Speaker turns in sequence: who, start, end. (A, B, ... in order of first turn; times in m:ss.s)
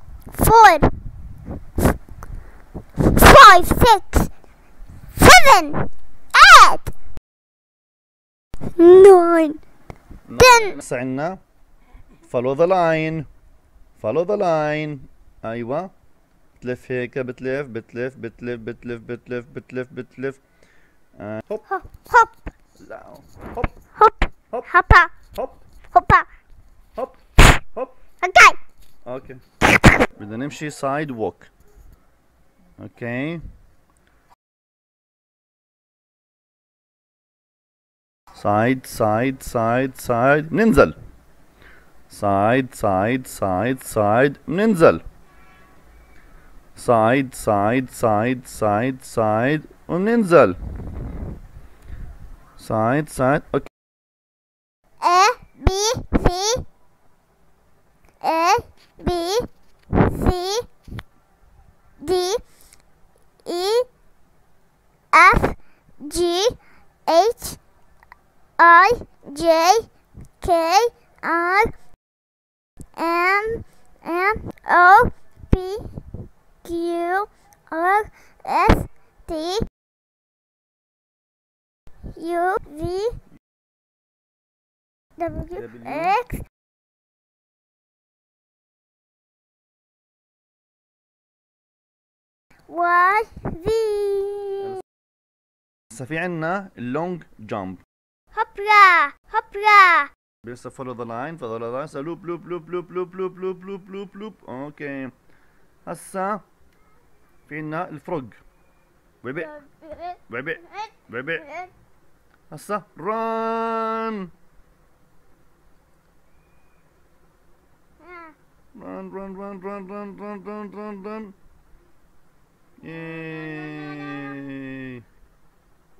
0:00.3-0:00.9 A
0:03.0-0:04.3 A
0:05.2-0:06.9 A
0:08.8-0:09.6 A
0:10.3-0:11.4 B
0:10.4-0:10.8 A
0:12.3-0:13.3 B
0:14.0-0:15.9 B
0:16.6-0:20.4 B
0:21.2-0:21.6 B
0:21.7-0:22.3 A
0:22.8-0:23.7 B
0:24.0-0:25.2 A
0:25.3-0:25.6 B
0:25.9-0:26.2 A
0:28.2-0:28.6 A
0:29.0-0:29.4 B
0:30.2-0:31.5 B
0:32.8-0:33.4 B
0:38.3-0:41.0 B
0:42.1-0:45.0 B
0:46.8-0:50.6 B
0:52.6-0:53.7 B
0:55.0-0:56.6 A
0:58.2-1:00.7 A
1:02.0-1:02.4 A
1:03.4-1:03.9 A
1:05.1-1:06.6 A
1:07.1-1:07.6 A
1:08.6-1:09.9 A
1:10.4-1:11.7 A
1:13.0-1:19.6 A
1:22.1-1:23.2 A
1:25.2-1:26.4 A
1:25.5-1:26.1 B
1:32.7-1:34.7 A
1:35.9-1:37.8 B
1:38.3-1:40.1 A
1:40.4-1:45.1 B
1:45.8-1:46.4 B
1:47.5-1:48.4 B
1:49.2-1:49.5 B
1:49.4-1:50.2 A
1:50.3-1:51.5 B
1:52.5-1:54.3 B
1:58.7-2:01.3 B
2:02.8-2:05.0 B